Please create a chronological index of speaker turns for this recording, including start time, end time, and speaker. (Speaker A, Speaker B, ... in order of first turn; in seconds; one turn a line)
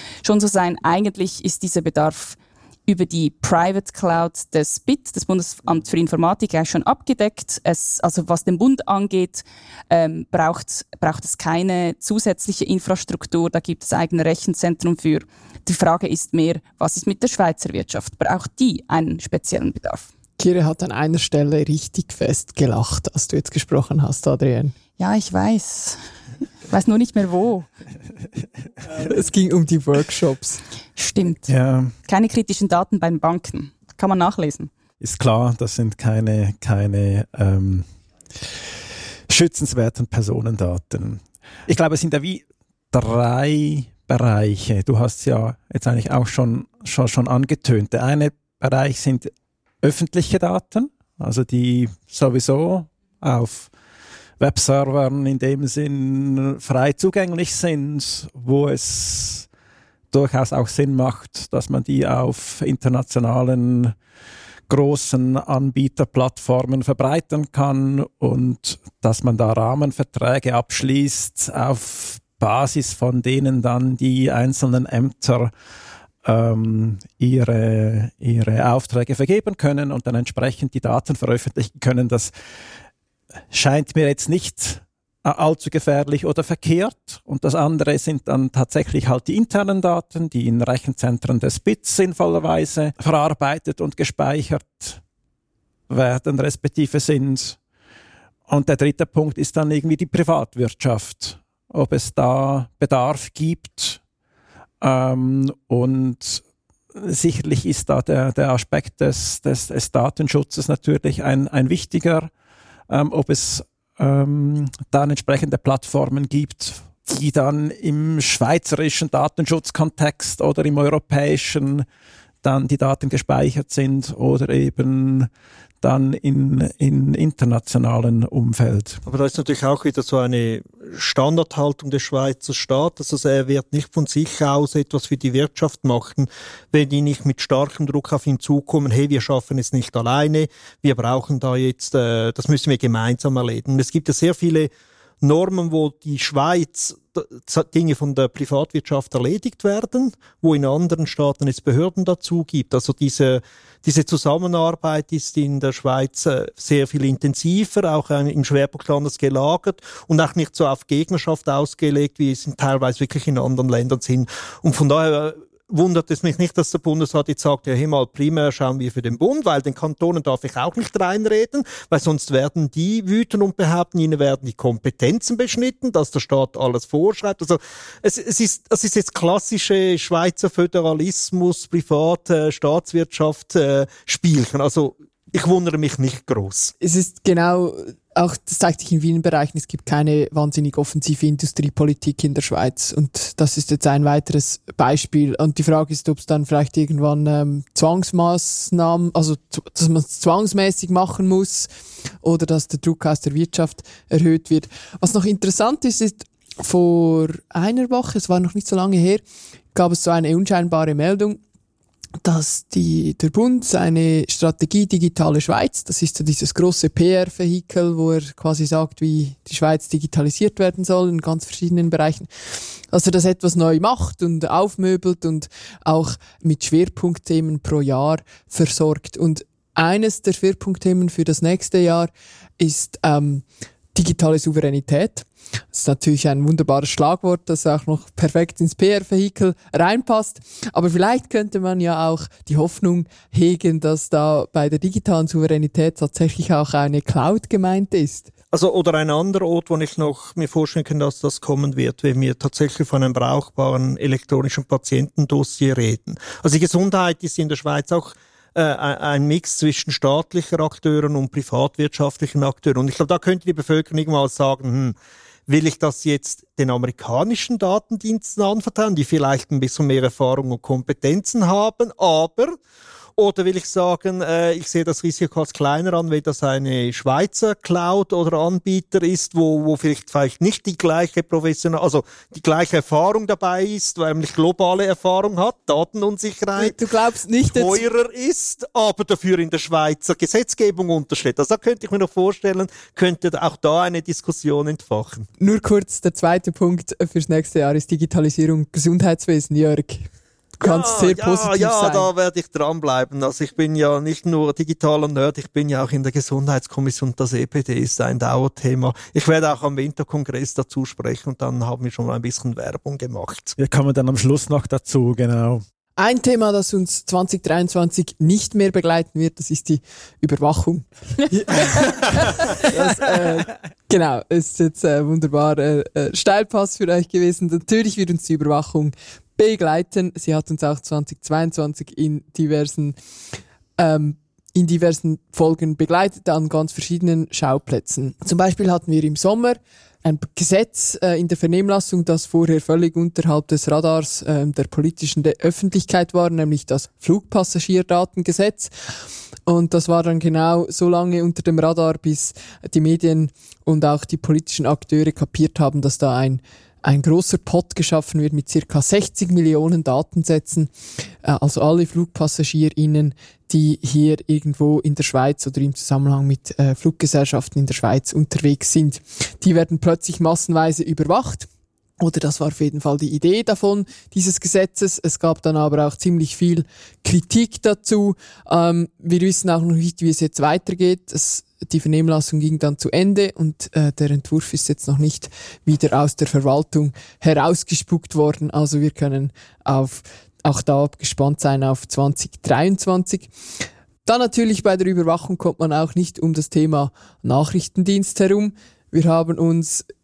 Speaker A: 0.2-20.1
Speaker B: 20.4-24.7
Speaker A: 25.0-26.0
Speaker A: 26.7-27.7
Speaker B: 29.0-30.6
Speaker A: 30.9-31.5
Speaker C: 31.5-31.9
Speaker A: 32.0-34.7
Speaker C: 35.0-37.9
Speaker C: 39.3-49.3
Speaker C: 49.8-53.7
Speaker C: 54.4-59.5
Speaker C: 60.1-63.9
Speaker C: 64.7-75.5
Speaker C: 76.2-82.3
Speaker C: 83.5-95.0
Speaker C: 95.9-97.6
Speaker C: 98.5-104.0
Speaker C: 104.8-106.4
Speaker C: 106.9-112.3
Speaker C: 112.9-121.9
Speaker C: 122.4-125.3
Speaker C: 125.8-129.0
Speaker D: 129.1-144.7
Speaker D: 145.2-186.7
Speaker B: 186.8-201.7
Speaker B: 202.2-209.2
Speaker B: 209.7-211.4
Speaker B: 212.2-222.3
Speaker B: 222.9-248.3
Speaker D: 248.5-264.9
Speaker D: 265.5-272.6
Speaker D: 273.1-286.8
Speaker B: 286.6-287.8
Speaker D: 287.4-295.3
Speaker B: 295.4-300.1
Speaker B: 300.6-302.1
Speaker D: 300.6-313.6
Speaker C: 313.6-315.6
Speaker B: 316.0-333.0
Speaker B: 333.8-348.7
Speaker B: 349.4-360.7
Speaker B: 361.2-371.5
Speaker B: 372.0-393.3
Speaker B: 394.1-399.9